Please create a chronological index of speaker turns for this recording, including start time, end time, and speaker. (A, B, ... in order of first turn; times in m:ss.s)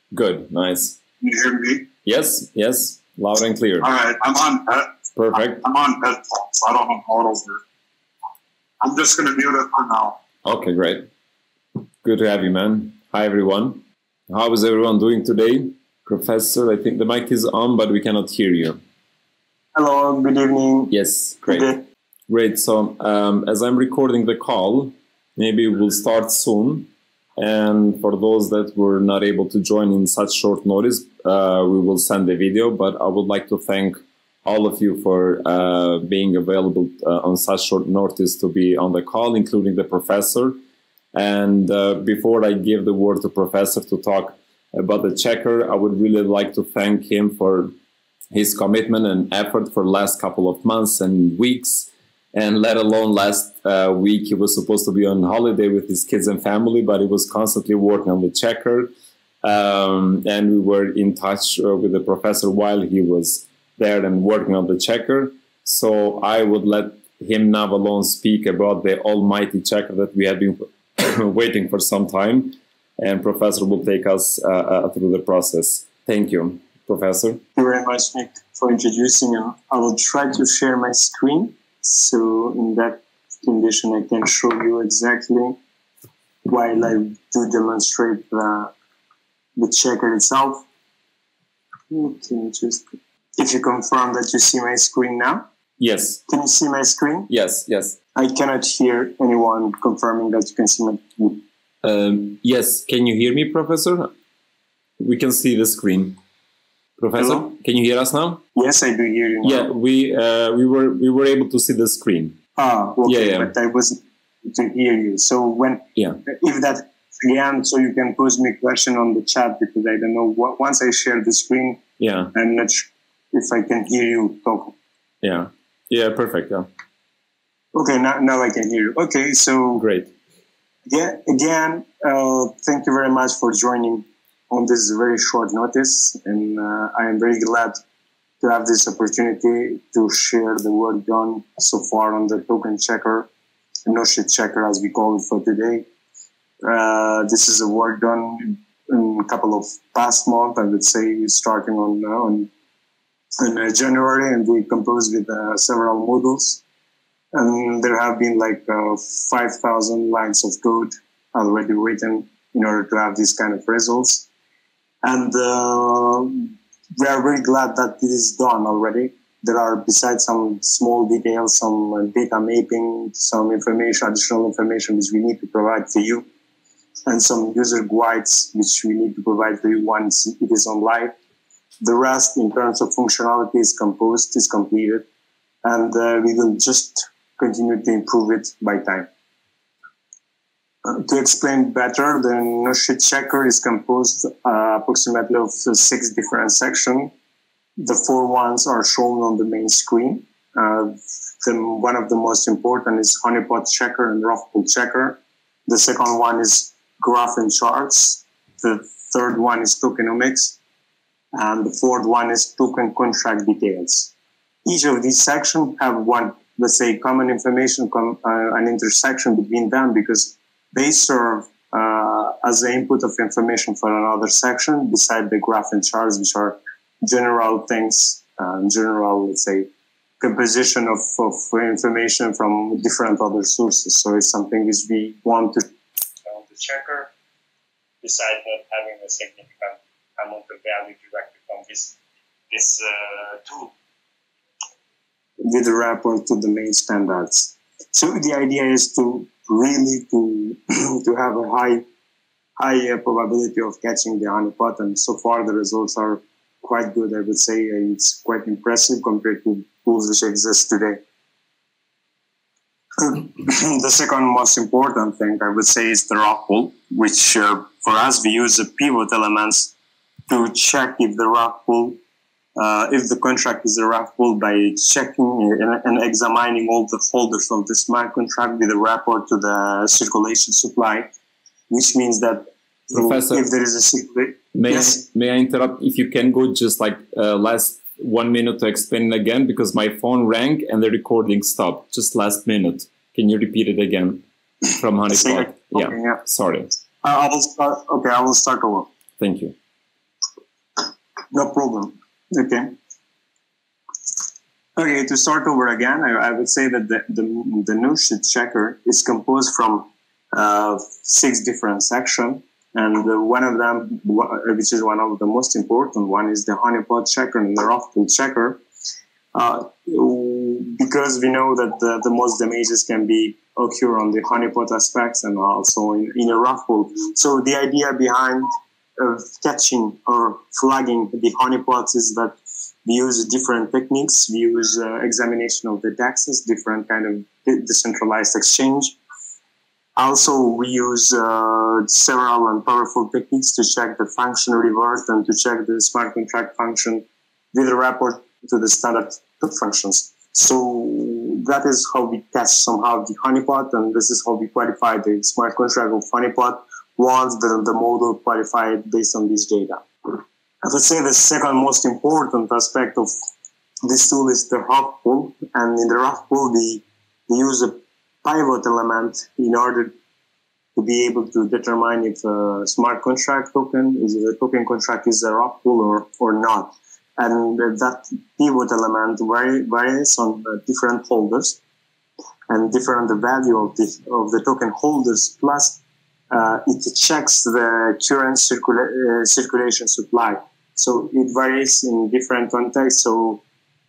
0:00.1-0:01.0 A
0:01.2-0:01.9 B
0:02.0-0:03.9 A
0:03.8-0:07.6 B
0:05.1-0:05.6 A
0:08.8-0:10.2 B
0:10.4-0:11.1 A
0:12.0-0:18.8 A
0:19.8-0:20.9 C
0:20.9-0:21.7 A
0:21.5-0:21.8 C
0:22.3-0:40.6 A
0:41.1-0:47.7 A
0:48.3-0:58.9 A
0:59.4-1:17.4 A
1:17.6-1:25.6 C
1:26.4-1:28.7 C
1:29.6-1:30.6 C
1:31.9-1:32.8 C
1:33.4-1:35.4 C
1:35.8-1:36.2 A
1:36.3-1:37.3 C
1:37.3-1:38.0 A
1:38.2-1:41.4 C
1:41.8-1:44.1 A
1:45.0-1:46.2 A
1:47.0-1:48.4 A
1:47.2-1:47.5 C
1:48.6-1:49.7 C
1:49.4-1:52.4 A
1:52.6-2:01.8 C
1:53.0-1:53.5 A
2:02.0-2:02.3 A
2:02.3-2:04.7 C
2:05.2-2:06.7 A
2:07.7-2:09.9 C
2:09.8-2:10.1 A
2:10.9-2:17.8 C
2:18.4-2:23.3 C
2:23.9-2:25.9 C
2:26.6-2:32.5 C
2:33.4-2:36.6 C
2:37.3-2:44.3 C
2:45.0-2:56.3 C
2:57.1-3:01.1 C
3:01.8-3:05.0 C
3:05.6-3:09.1 C
3:10.8-3:17.1 C
3:17.8-3:30.6 C
3:31.3-3:34.1 C
3:34.6-3:49.7 C
3:50.2-3:55.6 C
3:56.3-3:57.1 C
3:58.0-4:02.0 C
4:02.5-4:03.7 C
4:05.4-4:11.8 C
4:12.6-4:21.0 C
4:23.0-4:29.7 C
4:30.3-4:32.0 C
4:32.6-4:41.1 C
4:41.7-4:45.0 C
4:42.9-4:43.4 A
4:44.5-4:54.2 A
4:54.8-4:56.7 A
4:55.1-4:56.2 C
4:57.0-4:58.9 C
4:59.2-4:59.5 A
5:01.3-5:02.7 C
5:04.8-5:18.6 C
5:19.3-5:39.0 C
5:40.0-6:03.1 C
6:03.8-6:09.9 C
6:10.8-6:21.6 C
6:22.5-6:25.8 C
6:26.3-6:33.4 C